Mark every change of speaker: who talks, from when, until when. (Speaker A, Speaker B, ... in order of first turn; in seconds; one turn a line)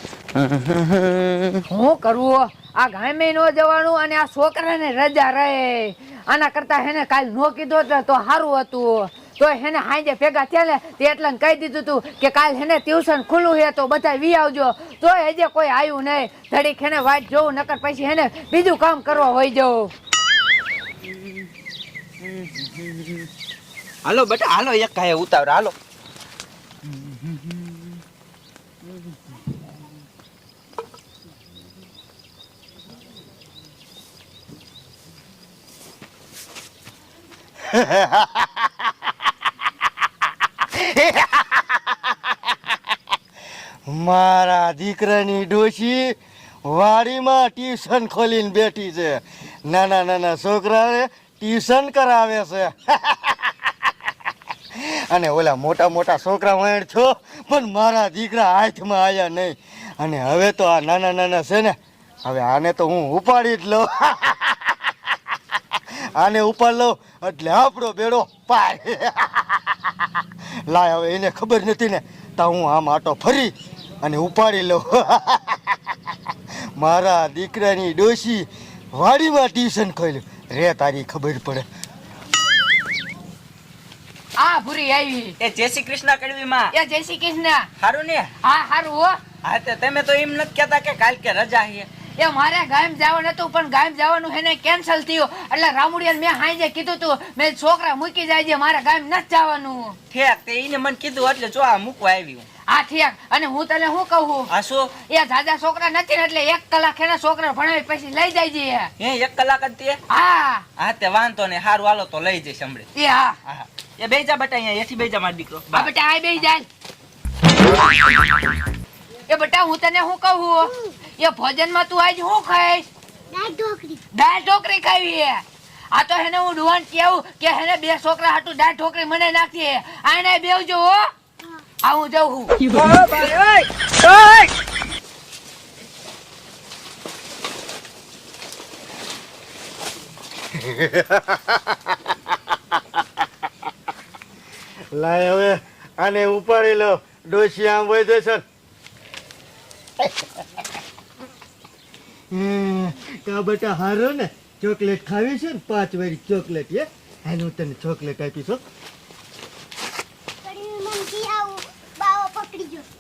Speaker A: 0.3-1.6
Speaker B: 1.7-19.9
Speaker A: 21.1-21.5
Speaker A: 22.2-23.3
Speaker A: 24.0-25.8
Speaker A: 26.8-28.0
Speaker C: 37.6-38.7
Speaker C: 40.7-42.0
Speaker C: 43.9-53.7
Speaker C: 54.7-61.8
Speaker C: 62.3-64.8
Speaker C: 65.8-70.1
Speaker C: 70.7-75.8
Speaker C: 76.8-81.7
Speaker B: 84.4-85.4
Speaker A: 85.4-86.7
Speaker B: 86.7-87.7
Speaker A: 87.8-88.3
Speaker B: 88.4-89.2
Speaker A: 89.4-91.9
Speaker B: 92.1-100.0
Speaker A: 100.1-102.5
Speaker B: 102.7-108.9
Speaker A: 104.5-104.9
Speaker A: 109.0-110.0
Speaker B: 110.1-110.7
Speaker A: 110.8-112.9
Speaker B: 113.0-113.4
Speaker A: 113.5-115.9
Speaker B: 115.7-116.7
Speaker B: 119.3-122.8
Speaker D: 123.3-124.0
Speaker B: 124.1-131.1
Speaker B: 131.8-132.8
Speaker A: 132.7-134.4
Speaker C: 140.6-141.6
Speaker C: 144.9-148.4
Speaker C: 152.3-158.6
Speaker D: 160.4-162.9